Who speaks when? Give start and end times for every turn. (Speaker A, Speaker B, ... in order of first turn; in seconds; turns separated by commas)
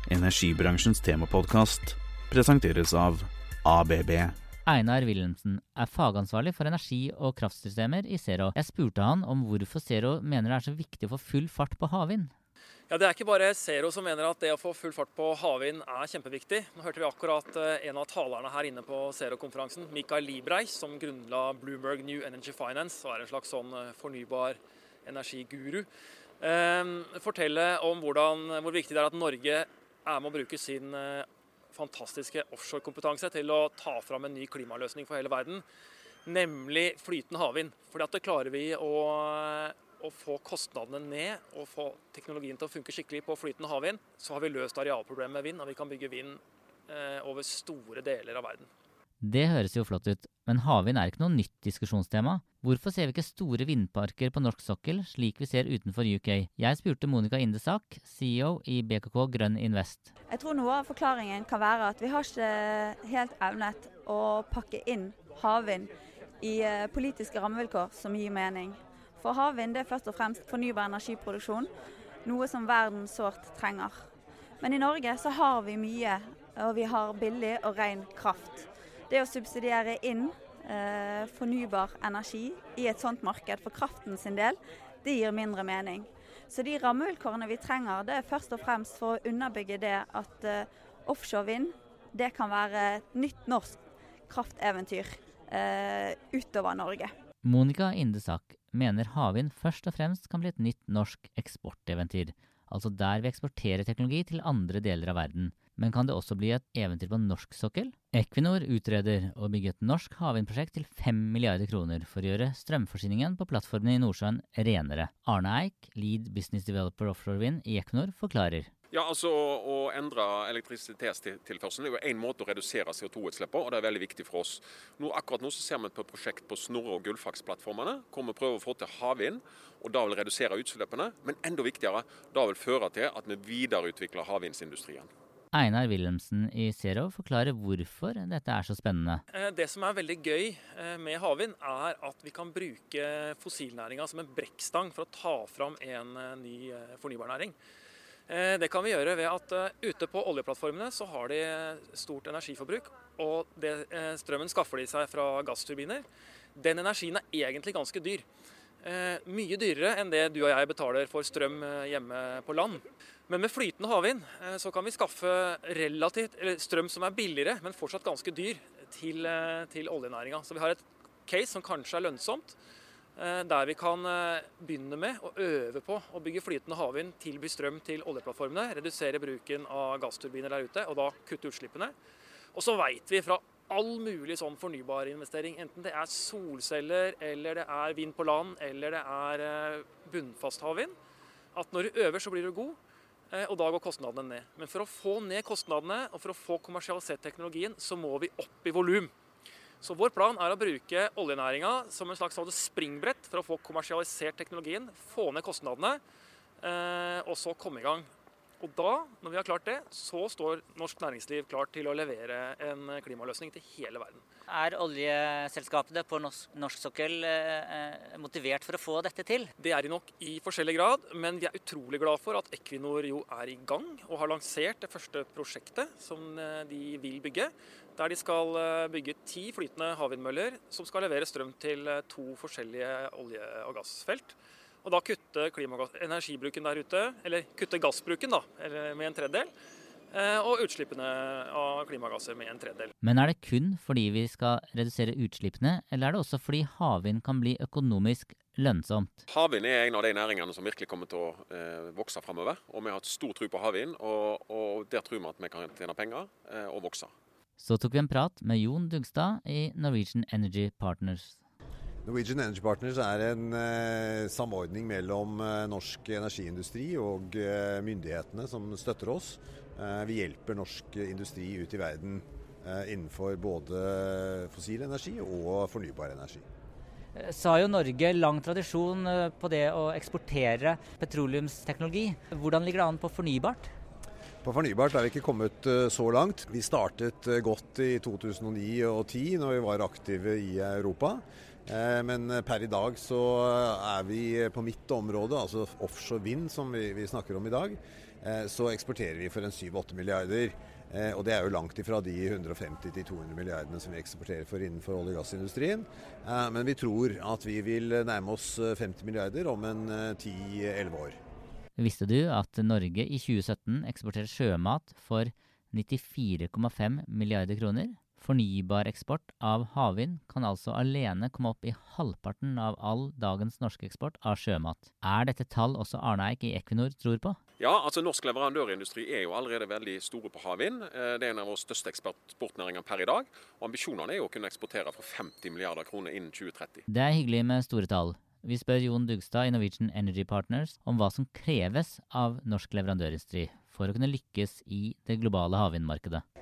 Speaker A: 0.1-4.4, Speaker B: 4.7-12.3, Speaker C: 12.9-25.9, Speaker C: 26.4-35.6, Speaker C: 36.3-48.7, Speaker B: 49.2-60.1, Speaker D: 60.3-71.7, Speaker D: 72.2-74.0, Speaker D: 74.6-93.8, Speaker D: 94.3-97.1, Speaker B: 97.4-118.7, Speaker E: 118.9-135.1, Speaker B: 135.5-139.2, Speaker C: 139.3-147.6, Speaker C: 148.3-156.1, Speaker C: 156.6-158.2, Speaker C: 158.8-172.6, Speaker C: 173.2-181.9, Speaker C: 182.5-190.9, Speaker C: 191.6-192.8, Speaker C: 193.3-199.1, Speaker C: 199.8-206.0, Speaker C: 206.6-208.1, Speaker C: 208.6-214.2, Speaker F: 214.5-219.5, Speaker C: 219.6-239.5, Speaker C: 240.1-242.9, Speaker B: 243.0-249.2, Speaker E: 249.3-257.1, Speaker B: 257.6-261.4, Speaker G: 262.1-276.4, Speaker F: 277.1-283.7, Speaker G: 284.4-311.2, Speaker B: 311.8-327.4, Speaker E: 327.6-336.9, Speaker B: 336.9-346.2